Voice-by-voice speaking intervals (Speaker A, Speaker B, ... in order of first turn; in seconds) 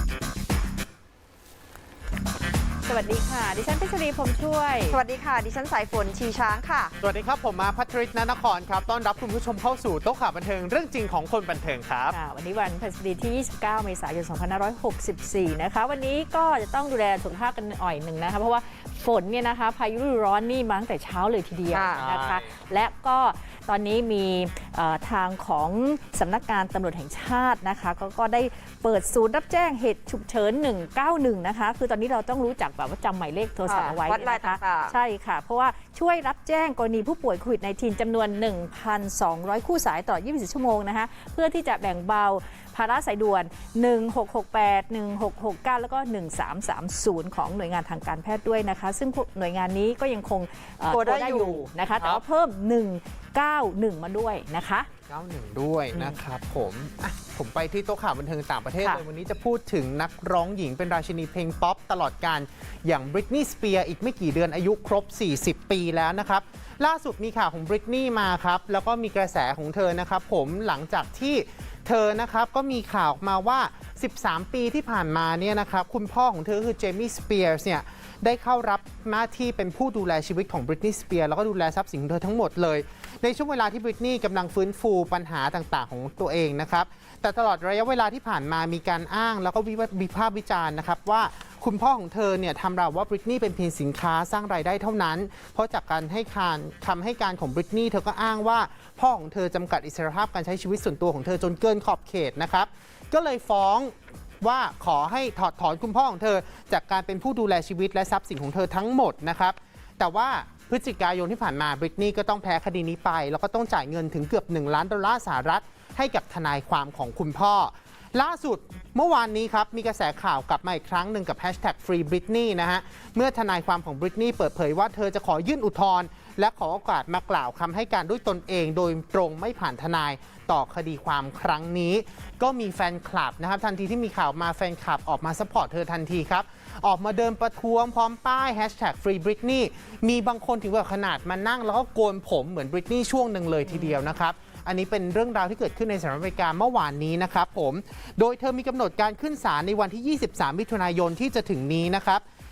Speaker A: 2.9-5.0, 12.1-54.9
Speaker B: 4.9-6.9, 21.7-22.1, 33.7-35.0, 50.9-51.7
Speaker C: 7.0-12.2, 22.0-22.5, 55.1-152.2